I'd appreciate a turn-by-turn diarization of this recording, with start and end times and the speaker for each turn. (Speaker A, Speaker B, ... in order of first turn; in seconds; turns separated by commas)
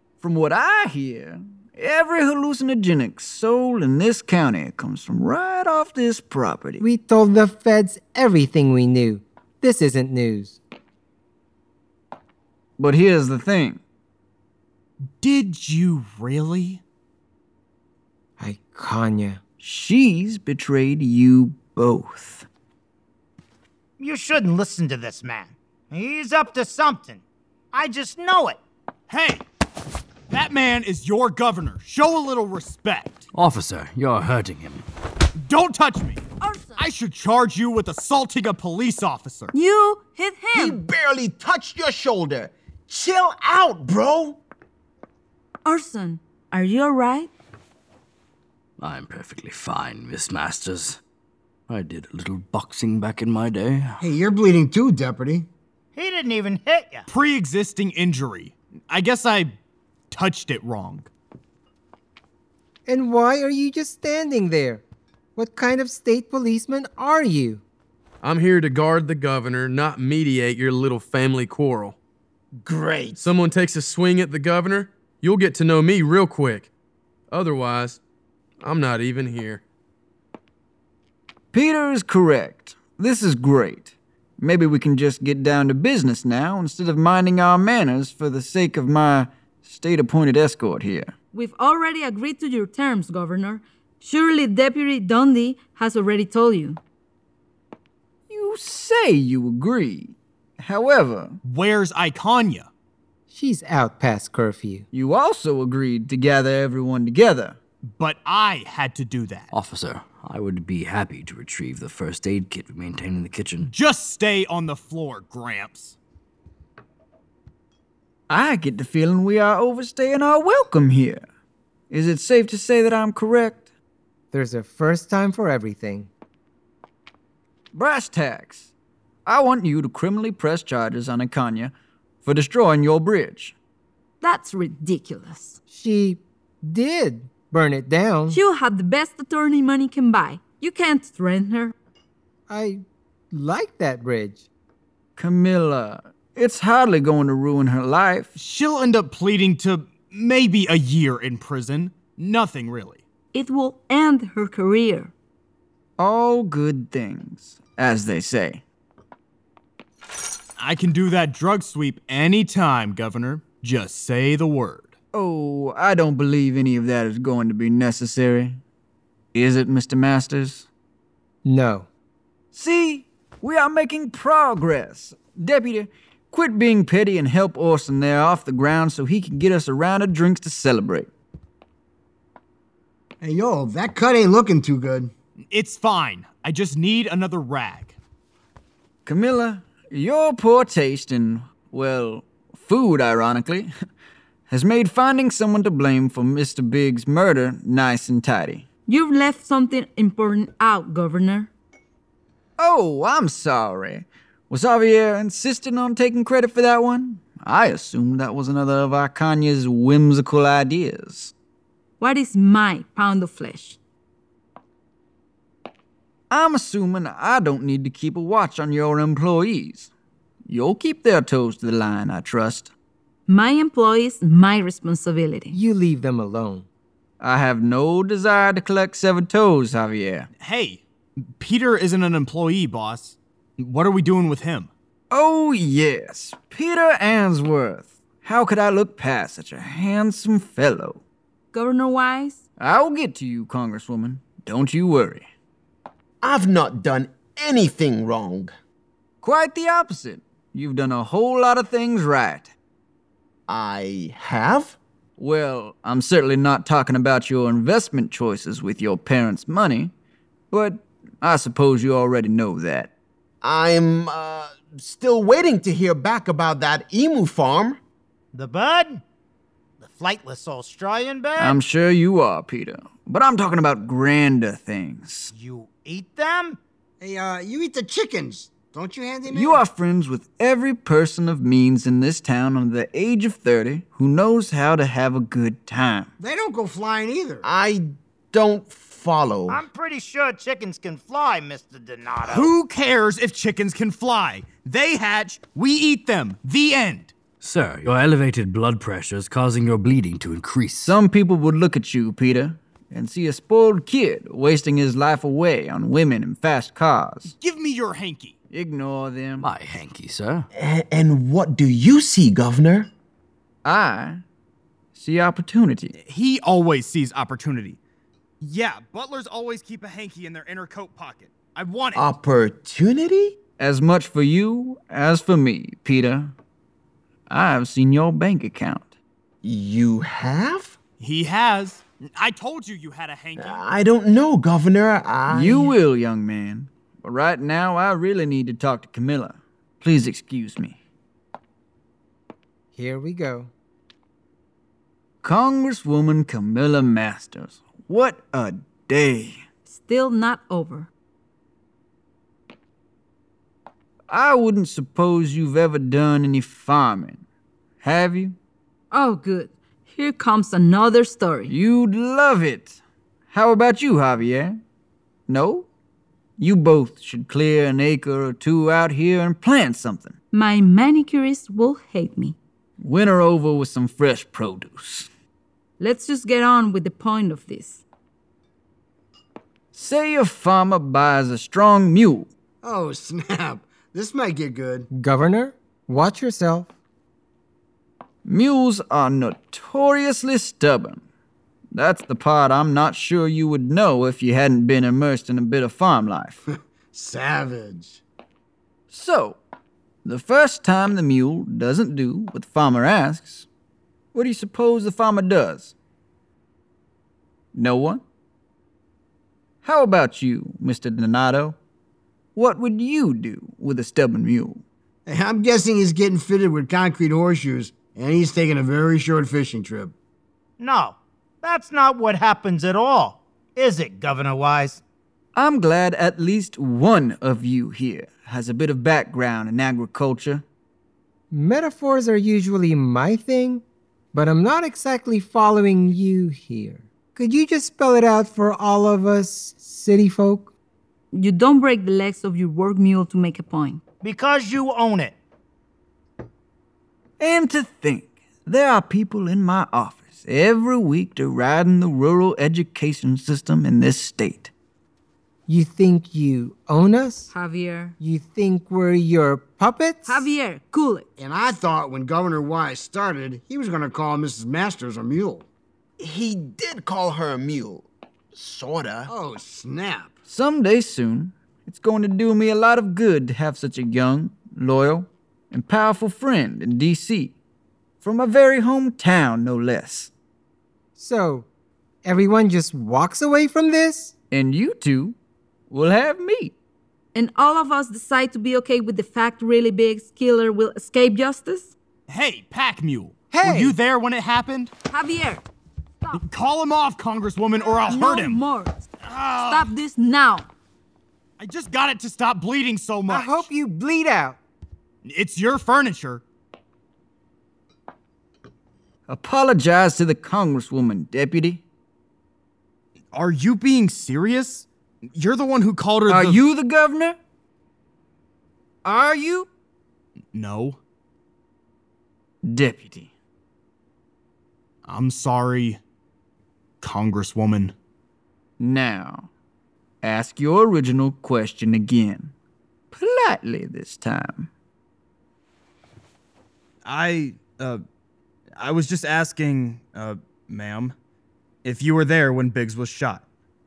Speaker A: 0.2-6.8, Speaker B: 6.8-10.6, Speaker A: 12.8-13.8, Speaker C: 15.2-16.8, Speaker B: 18.4-19.4, Speaker A: 19.6-22.4, Speaker D: 24.0-28.6, Speaker C: 29.1-29.4, Speaker C: 30.3-33.2, Speaker E: 33.3-34.8, Speaker C: 35.4-36.2, Speaker F: 36.4-36.9, Speaker C: 36.8-39.5, Speaker F: 39.5-40.8, Speaker G: 40.5-44.4, Speaker F: 45.6-47.3, Speaker E: 48.8-51.0, Speaker E: 51.7-54.0, Speaker H: 54.0-55.5, Speaker D: 55.9-57.1, Speaker C: 57.1-59.5, Speaker C: 60.1-61.1, Speaker B: 62.9-64.8, Speaker B: 65.3-67.6, Speaker I: 68.2-72.0, Speaker G: 72.6-73.3, Speaker I: 73.2-76.7, Speaker I: 77.3-78.0, Speaker I: 78.6-79.6, Speaker A: 81.5-91.1, Speaker F: 91.3-96.8, Speaker A: 98.3-101.4, Speaker C: 101.4-102.7, Speaker B: 103.3-104.9, Speaker A: 104.9-107.6, Speaker C: 108.0-109.5, Speaker E: 109.5-113.7, Speaker C: 113.6-116.0, Speaker A: 118.3-121.2, Speaker A: 121.9-123.7, Speaker B: 124.3-126.1, Speaker A: 127.7-128.7, Speaker A: 129.2-133.5, Speaker F: 134.2-135.6, Speaker B: 135.7-138.4, Speaker F: 138.3-141.7, Speaker B: 142.5-144.4, Speaker A: 145.2-148.3, Speaker C: 148.3-153.0, Speaker F: 153.3-155.1, Speaker A: 156.0-158.6, Speaker C: 160.6-164.9, Speaker A: 165.1-168.6, Speaker A: 169.3-170.7, Speaker B: 171.4-171.9, Speaker A: 172.5-181.1, Speaker H: 183.2-185.1, Speaker C: 185.4-188.0, Speaker A: 189.0-193.7, Speaker A: 194.5-198.7, Speaker F: 198.8-201.5, Speaker A: 202.6-211.3, Speaker F: 212.0-213.8, Speaker A: 216.3-219.9, Speaker A: 220.4-222.7, Speaker F: 223.3-225.5, Speaker B: 225.5-226.7, Speaker A: 227.2-230.3, Speaker C: 230.4-234.7, Speaker A: 235.1-241.0, Speaker F: 241.5-242.4, Speaker A: 242.6-245.3, Speaker G: 246.2-248.5, Speaker A: 249.2-252.5, Speaker G: 253.5-254.8, Speaker A: 255.2-259.9, Speaker A: 260.5-262.9, Speaker G: 263.4-267.8, Speaker D: 268.3-269.0, Speaker D: 269.8-271.6, Speaker A: 271.4-275.3, Speaker D: 275.3-276.6, Speaker H: 277.0-279.6, Speaker A: 279.3-286.1, Speaker H: 286.2-287.4, Speaker G: 287.4-289.6, Speaker D: 289.5-292.5, Speaker C: 292.2-297.1, Speaker E: 297.4-301.0, Speaker A: 300.8-307.3, Speaker C: 307.3-308.4, Speaker A: 308.5-309.5, Speaker E: 309.4-310.5, Speaker G: 310.5-312.9, Speaker A: 313.6-314.2, Speaker A: 314.9-315.9, Speaker C: 315.9-317.8, Speaker C: 318.4-322.1, Speaker G: 321.9-323.4, Speaker A: 323.6-326.3, Speaker A: 327.3-328.9, Speaker G: 329.4-330.8, Speaker C: 331.0-333.6, Speaker G: 333.4-335.7, Speaker A: 335.3-340.8, Speaker B: 342.7-343.5, Speaker A: 345.2-349.4, Speaker F: 349.6-350.9, Speaker A: 354.1-357.2, Speaker A: 357.8-358.3, Speaker F: 358.9-361.5, Speaker A: 361.5-362.8, Speaker A: 363.3-364.6, Speaker A: 365.3-365.7, Speaker A: 366.4-370.2, Speaker F: 370.3-372.4, Speaker A: 372.8-375.1, Speaker F: 375.8-377.8, Speaker A: 379.7-382.3, Speaker H: 382.6-384.9, Speaker B: 384.9-386.7, Speaker A: 388.2-391.0, Speaker A: 391.7-396.4, Speaker H: 396.9-398.0, Speaker A: 398.9-399.4, Speaker A: 400.0-403.5, Speaker A: 404.1-405.7, Speaker A: 407.5-408.0, Speaker A: 409.6-411.6, Speaker A: 412.3-414.6, Speaker H: 415.1-419.9, Speaker D: 420.6-424.8, Speaker A: 425.3-430.4, Speaker B: 431.3-440.5, Speaker F: 441.1-443.8, Speaker D: 444.0-445.1, Speaker A: 447.2-454.5, Speaker B: 455.5-457.3, Speaker F: 457.3-457.9, Speaker B: 458.0-460.3, Speaker F: 460.1-461.1, Speaker H: 461.2-465.4, Speaker G: 466.0-469.1, Speaker H: 469.1-470.1, Speaker A: 470.3-477.3, Speaker A: 478.0-480.1, Speaker B: 480.9-481.5, Speaker B: 482.0-484.1, Speaker A: 484.3-485.1, Speaker A: 485.7-486.5, Speaker F: 487.1-491.7, Speaker C: 492.1-494.7, Speaker B: 493.3-493.8, Speaker F: 494.9-495.4, Speaker C: 496.1-498.4, Speaker F: 497.6-500.4, Speaker C: 499.0-499.7, Speaker C: 501.4-503.4, Speaker B: 503.1-504.4, Speaker C: 505.0-506.2, Speaker A: 509.1-511.6, Speaker C: 513.1-516.4, Speaker A: 516.1-517.2, Speaker A: 518.8-519.5, Speaker C: 520.3-520.8, Speaker A: 522.4-523.1, Speaker C: 524.8-525.8, Speaker C: 526.8-527.7, Speaker A: 528.6-529.3, Speaker A: 530.0-532.3, Speaker A: 532.9-534.5, Speaker C: 536.8-537.8, Speaker C: 538.6-540.9, Speaker C: 541.6-543.2